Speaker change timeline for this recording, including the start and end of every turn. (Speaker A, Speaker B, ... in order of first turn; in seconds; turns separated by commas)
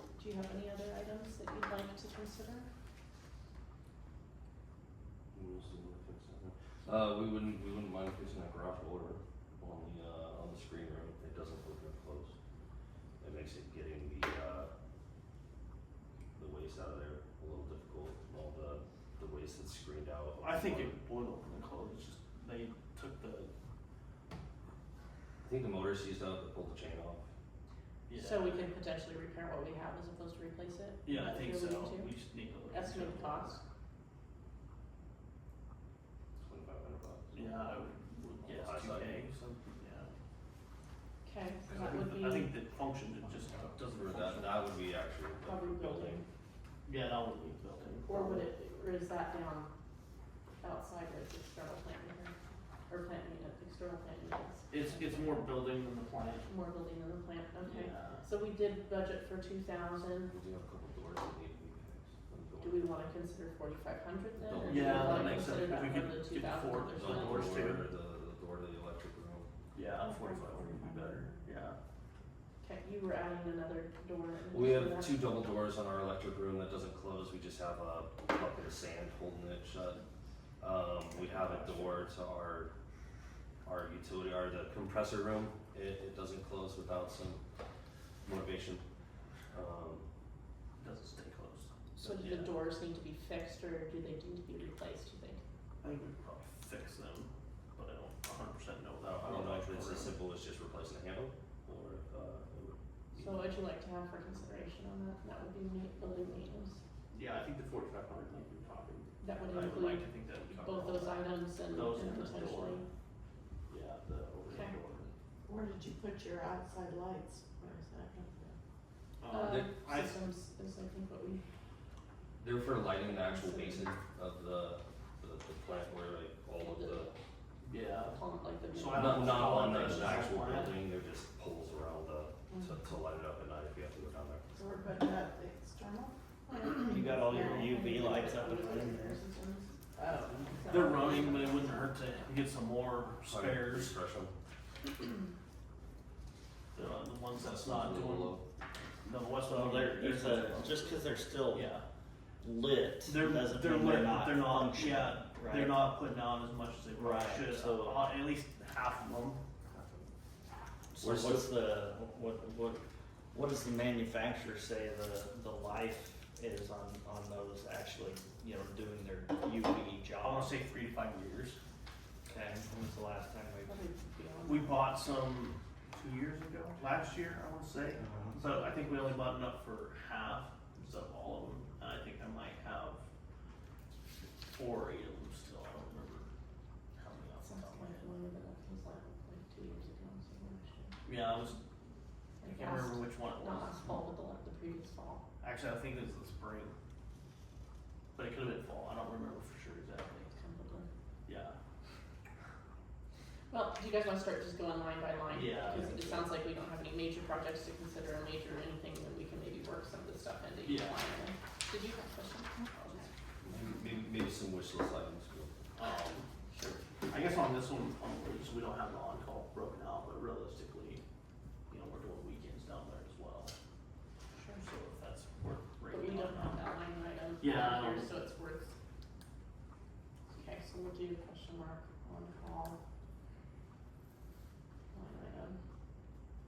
Speaker A: 0.2-2.7, Speaker B: 5.3-12.3, Speaker B: 13.2-14.7, Speaker B: 16.4-21.0, Speaker C: 20.4-23.5, Speaker B: 25.4-27.3, Speaker C: 28.1-28.7, Speaker A: 28.1-32.1, Speaker C: 31.0-33.6, Speaker A: 32.7-33.6, Speaker B: 36.4-37.9, Speaker C: 37.3-40.1, Speaker B: 38.4-39.3, Speaker A: 41.2-42.5, Speaker C: 41.7-44.3, Speaker B: 43.8-46.2, Speaker A: 44.1-44.5, Speaker A: 45.4-46.3, Speaker C: 46.9-48.5, Speaker A: 48.0-49.7, Speaker A: 50.6-52.3, Speaker A: 52.9-55.6, Speaker C: 54.7-56.5, Speaker A: 56.5-60.3, Speaker C: 57.6-58.2, Speaker B: 60.3-62.9, Speaker A: 62.6-67.7, Speaker B: 64.4-65.8, Speaker C: 64.7-67.9, Speaker B: 66.9-69.5, Speaker C: 69.7-71.8, Speaker D: 70.2-71.3, Speaker A: 72.6-75.3, Speaker B: 74.5-80.0, Speaker B: 80.6-82.7, Speaker C: 81.1-82.0, Speaker B: 83.7-87.4, Speaker B: 88.2-88.8, Speaker B: 89.5-90.1, Speaker C: 90.8-92.5, Speaker A: 92.0-95.4, Speaker C: 95.8-100.2, Speaker B: 99.0-103.5, Speaker A: 103.2-106.8, Speaker C: 107.1-112.8, Speaker A: 109.2-112.8, Speaker C: 113.7-115.1, Speaker D: 115.5-118.6, Speaker C: 119.2-120.1, Speaker A: 119.3-121.4, Speaker B: 119.4-119.7, Speaker B: 122.4-127.1, Speaker A: 123.0-123.9, Speaker A: 126.8-127.0, Speaker C: 127.6-128.2, Speaker A: 128.1-130.6, Speaker C: 128.7-130.8, Speaker B: 128.8-134.9, Speaker D: 134.6-136.1, Speaker A: 136.5-142.2, Speaker D: 136.7-138.5, Speaker E: 136.8-139.2, Speaker C: 140.0-143.9, Speaker B: 143.2-144.3, Speaker C: 146.7-148.4, Speaker B: 147.4-148.4, Speaker C: 149.0-151.8, Speaker E: 149.4-151.7, Speaker E: 152.4-155.9, Speaker C: 153.0-159.4, Speaker E: 156.9-158.1, Speaker E: 160.9-170.6, Speaker B: 161.0-161.5, Speaker C: 170.2-171.6, Speaker E: 172.3-173.8, Speaker A: 173.7-174.9, Speaker C: 174.4-183.0, Speaker E: 177.9-178.4, Speaker C: 184.5-186.3, Speaker C: 186.9-188.1, Speaker A: 187.4-190.9, Speaker C: 191.0-191.6, Speaker A: 192.4-195.2, Speaker C: 192.4-193.8, Speaker C: 195.4-196.8, Speaker C: 198.1-200.3, Speaker A: 200.3-200.9, Speaker C: 201.2-201.6, Speaker A: 203.5-213.1, Speaker C: 205.3-205.9, Speaker B: 205.7-206.3, Speaker C: 210.6-211.0, Speaker C: 212.8-213.0, Speaker B: 213.4-215.6, Speaker C: 215.8-216.3, Speaker A: 216.5-216.8, Speaker C: 217.1-221.0, Speaker C: 221.7-223.5, Speaker A: 224.4-224.6, Speaker C: 224.5-226.6, Speaker A: 225.9-228.7, Speaker C: 227.4-228.1, Speaker A: 230.3-232.8, Speaker A: 234.9-235.6